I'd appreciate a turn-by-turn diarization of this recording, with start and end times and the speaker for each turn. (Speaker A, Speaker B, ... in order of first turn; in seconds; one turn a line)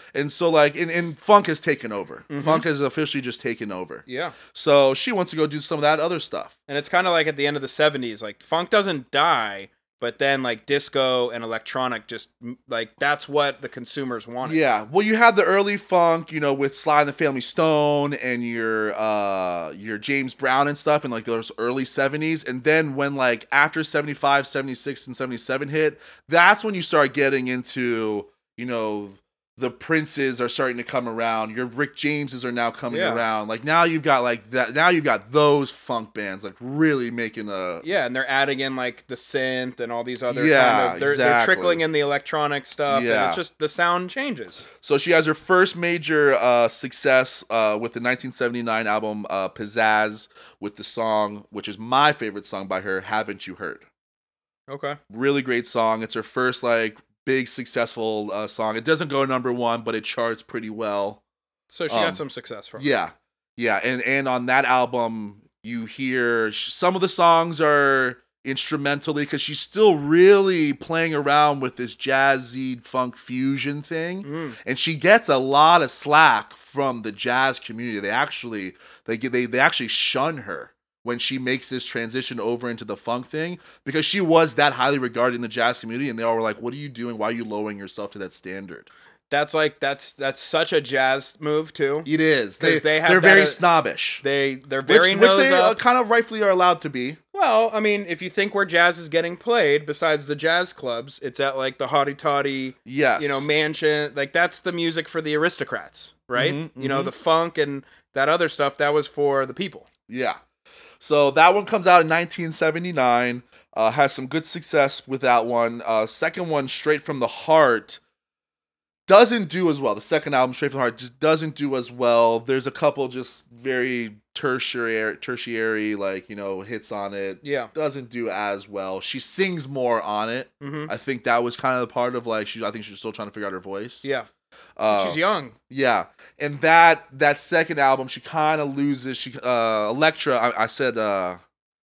Speaker A: 0.1-6.5
Speaker B: 2.3-2.7
Speaker B: 4.1-4.4
Speaker B: 6.7-14.6
Speaker A: 14.4-37.9
Speaker B: 32.9-33.2
Speaker B: 37.8-44.6
Speaker A: 40.3-41.8
Speaker A: 42.9-43.4
Speaker A: 44.8-53.9
Speaker B: 54.7-55.0
Speaker A: 55.1-61.2
Speaker B: 61.7-62.9
Speaker A: 61.9-62.2
Speaker A: 62.8-88.9
Speaker B: 74.2-74.6
Speaker B: 89.3-93.6
Speaker A: 92.1-94.2
Speaker B: 94.2-95.8
Speaker A: 94.8-97.2
Speaker B: 97.3-109.9
Speaker A: 102.9-103.5
Speaker A: 106.3-107.1
Speaker A: 110.1-110.4
Speaker A: 111.0-118.0
Speaker A: 119.1-134.1
Speaker B: 127.4-127.7
Speaker B: 130.6-130.9
Speaker A: 134.8-141.4
Speaker B: 134.9-135.6